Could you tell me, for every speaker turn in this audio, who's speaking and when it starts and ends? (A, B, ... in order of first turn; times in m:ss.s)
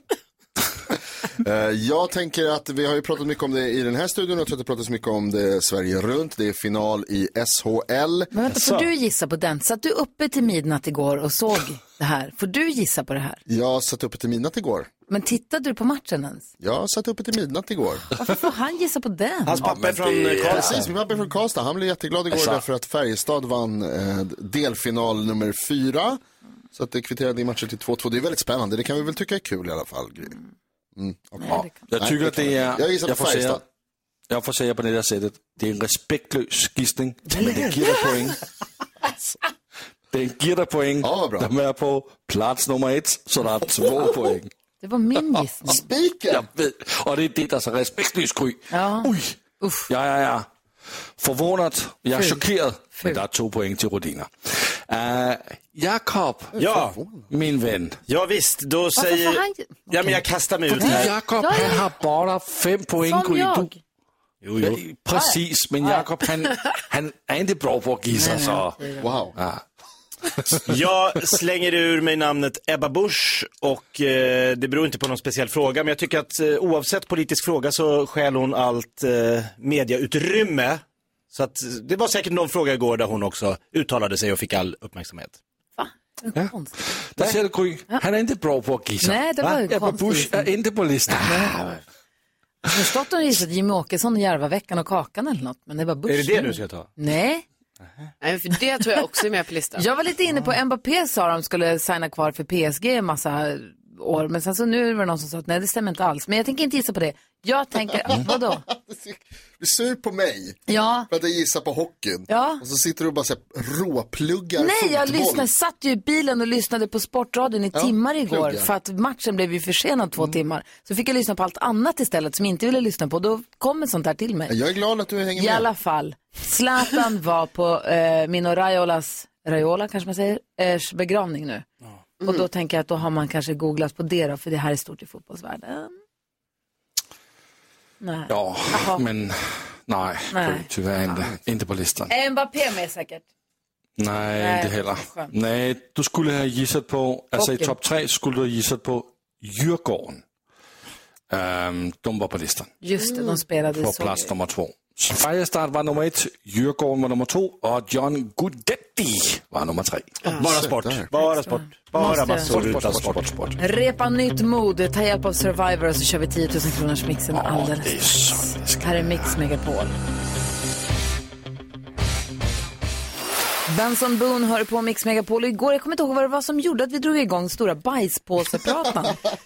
0:01.4-0:08.3 A
0:08.3-0:13.4 B
0:08.5-0:08.8 C
0:13.5-0:14.9 A
0:15.1-0:16.5 B
0:16.6-0:18.0 A
0:18.2-0:19.8 B
0:19.5-0:20.8 C
0:19.6-0:20.8 D
0:20.5-0:26.2 A
0:22.3-0:22.6 D
0:26.7-0:30.4 A
0:31.0-0:33.6 A
0:31.4-0:31.9 B
0:31.5-0:33.6 D
0:34.3-0:38.4 D
0:37.3-0:37.6 B
0:40.1-0:44.5 D
0:41.0-0:41.5 A
0:44.8-0:45.8 B
0:45.7-0:46.4 A
0:46.3-0:49.4 D
0:48.7-0:49.9 B
0:49.9-0:50.5 D
0:51.2-0:56.6 D
0:52.1-0:52.4 B
0:52.9-0:53.2 B
0:56.6-0:57.0 C
0:56.6-0:57.3 A
0:57.3-0:58.0 D
0:58.1-1:01.1 C
0:59.0-1:00.2 B
1:00.7-1:03.7 D
1:00.7-1:01.8 B
1:03.0-1:03.7 B
1:04.4-1:04.8 C
1:04.6-1:08.8 D
1:05.1-1:06.1 B
1:08.1-1:09.1 B
1:09.0-1:09.3 A
1:09.4-1:09.6 D
1:10.6-1:25.4 C
1:25.8-1:27.1 B
1:27.1-1:31.8 D
1:29.0-1:30.5 B
1:31.2-1:31.7 B
1:32.6-1:37.4 B
1:36.1-1:36.9 C
1:38.2-1:39.8 E
1:39.8-1:48.6 B
1:48.1-1:55.5 A
1:50.7-1:51.1 B
1:52.3-1:52.6 B
1:54.6-2:04.5 B
1:57.7-1:58.7 A
2:04.5-2:05.7 A
2:05.4-2:11.6 B
2:12.2-2:15.9 B
2:18.0-2:19.0 B
2:18.3-2:22.1 D
2:20.3-2:20.7 B
2:22.1-2:23.2 B
2:24.0-2:30.2 D
2:24.3-2:25.3 B
2:27.3-2:27.8 B
2:31.3-2:32.7 D
2:32.8-2:34.3 B
2:33.0-2:33.3 E
2:33.7-2:40.1 D
2:40.4-2:43.2 C
2:40.4-2:41.0 A
2:41.1-2:42.6 B
2:42.3-2:43.6 D
2:43.6-2:49.9 B
2:47.3-2:49.4 D
2:53.7-2:59.2 B